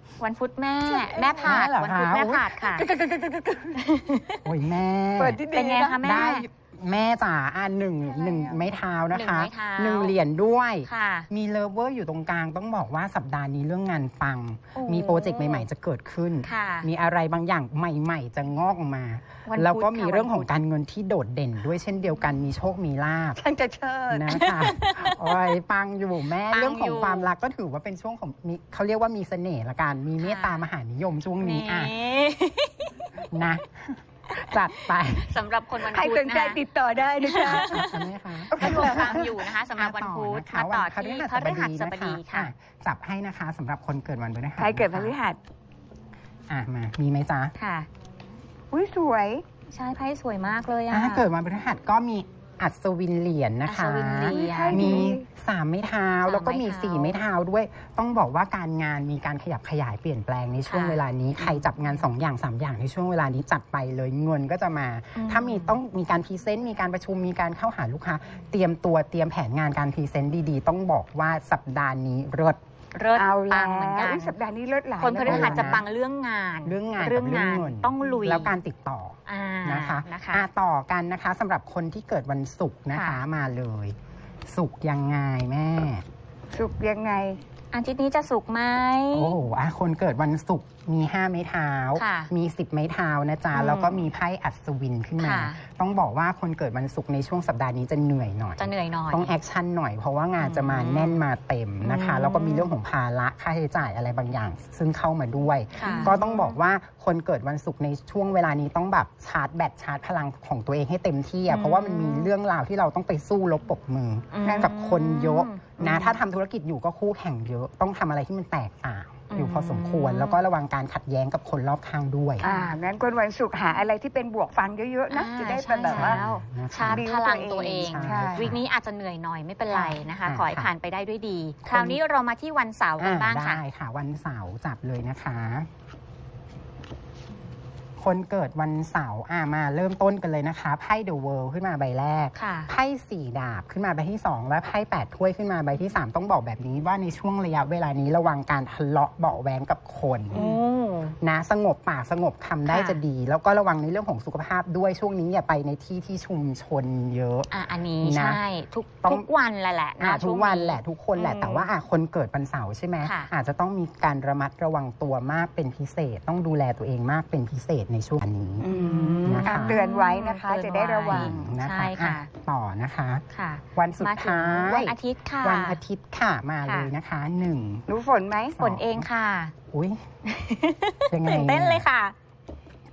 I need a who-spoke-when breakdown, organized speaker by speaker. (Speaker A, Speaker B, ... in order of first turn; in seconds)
Speaker A: 0.2-2.9, 3.7-4.4, 5.5-6.5, 9.1-10.1, 10.8-11.3, 14.7-15.7, 16.4-16.9, 19.4-20.4, 24.3-25.3, 26.5-27.3, 30.2-30.7, 31.4-33.1, 35.1-36.6, 37.2-42.5, 47.5-47.9, 49.7-51.3, 53.6-55.1, 56.2-57.2, 60.7-61.9, 65.1-65.8, 72.9-74.3, 75.0-78.5, 79.3-80.5, 82.9-83.2, 87.7-89.4, 91.9-92.3, 93.5-94.1, 95.2-95.6, 98.6-99.3, 100.4-101.2, 101.8-102.7, 105.8-106.6, 111.5-112.3, 114.3-116.2, 119.3-120.4, 122.4-122.8, 125.1-133.6, 142.3-142.7, 150.3-151.2, 152.7-153.0, 157.5-161.7, 163.0-163.3, 168.7-172.3, 173.3-175.8, 176.6-176.9, 178.6-179.5, 180.2-182.1
Speaker B: 0.9-1.6, 2.7-3.8, 5.2-6.0, 8.1-8.7, 23.4-24.3, 35.9-37.8, 38.5-39.1, 44.6-45.4, 48.7-49.4, 54.2-55.2, 73.1-75.8, 86.5-87.4, 105.8-106.1, 114.4-114.7, 122.4-126.2, 126.8-128.6, 168.6-171.5, 177.9-178.6
Speaker C: 1.2-2.6, 4.4-5.4, 6.0-23.4, 24.1-32.0, 33.3-35.3, 37.4-45.1, 46.5-47.5, 50.9-72.6, 75.2-75.8, 76.6-83.9, 84.5-86.0, 89.1-122.5, 125.8-128.6, 129.7-130.7, 131.7-132.0, 133.0-135.7, 138.0-150.6, 151.2-158.4, 160.0-168.7, 169.2-169.8, 171.1-173.2, 173.7-177.9, 178.5-179.1, 179.7-180.0, 181.1-181.9